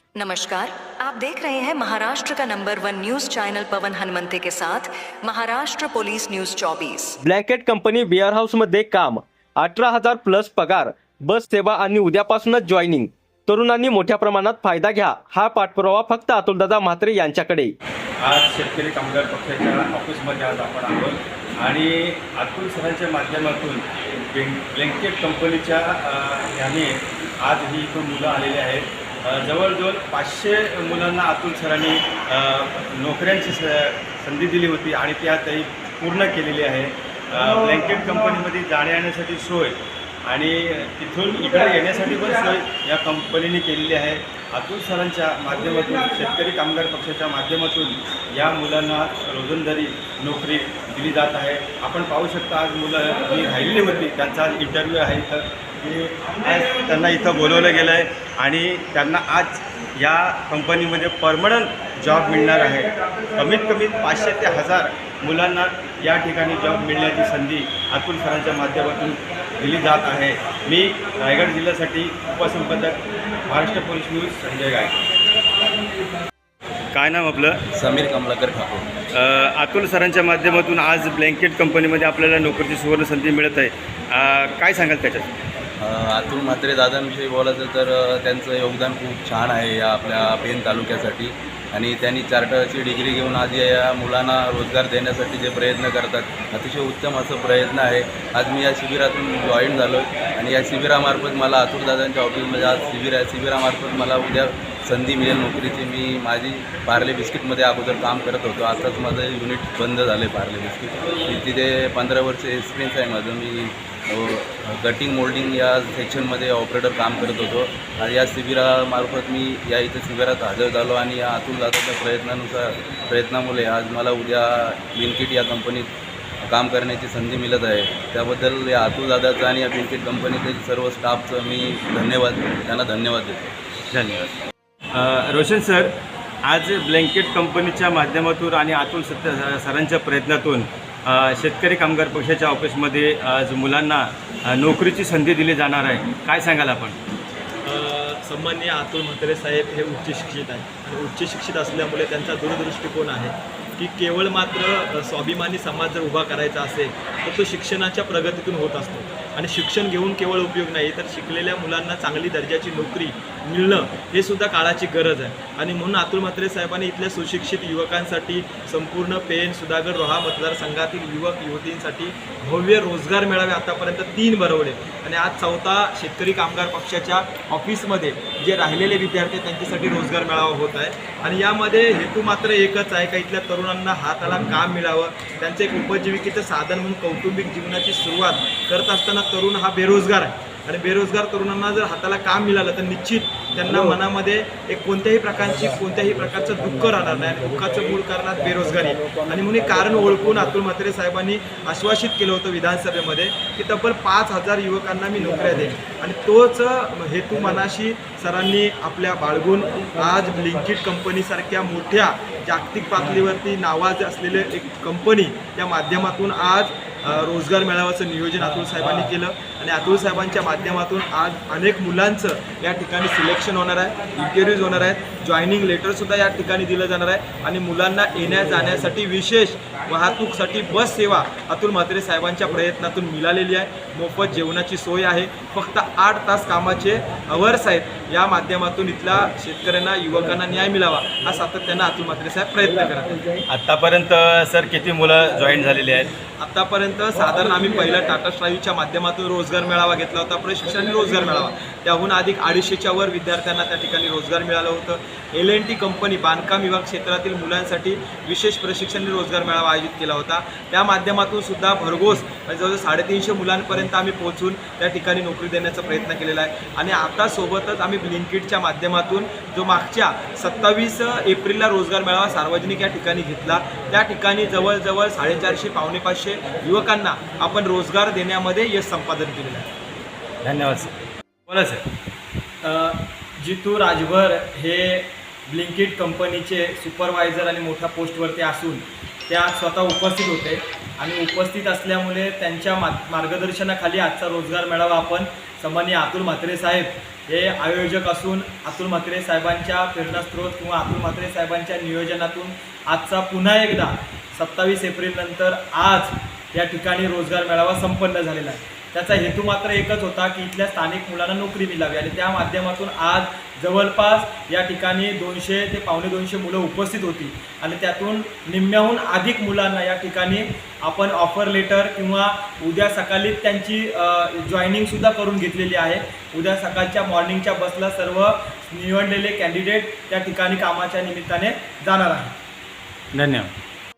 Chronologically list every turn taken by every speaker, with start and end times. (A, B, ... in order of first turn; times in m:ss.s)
0:00.2-0:07.2 A
0:07.2-0:17.7 B
0:18.2-1:15.0 C
1:16.9-1:17.7 C
1:17.8-1:18.9 D
1:19.1-1:25.3 C
1:25.8-2:05.9 D
2:06.4-2:13.5 D
2:13.9-2:14.3 C
2:14.9-2:15.9 C
2:16.4-2:27.0 C
2:27.6-4:03.2 E
4:03.5-4:06.1 C
4:06.4-4:39.7 E
4:40.4-4:40.9 C
4:41.5-4:41.8 C
4:42.6-5:32.4 E
5:33.2-5:33.5 C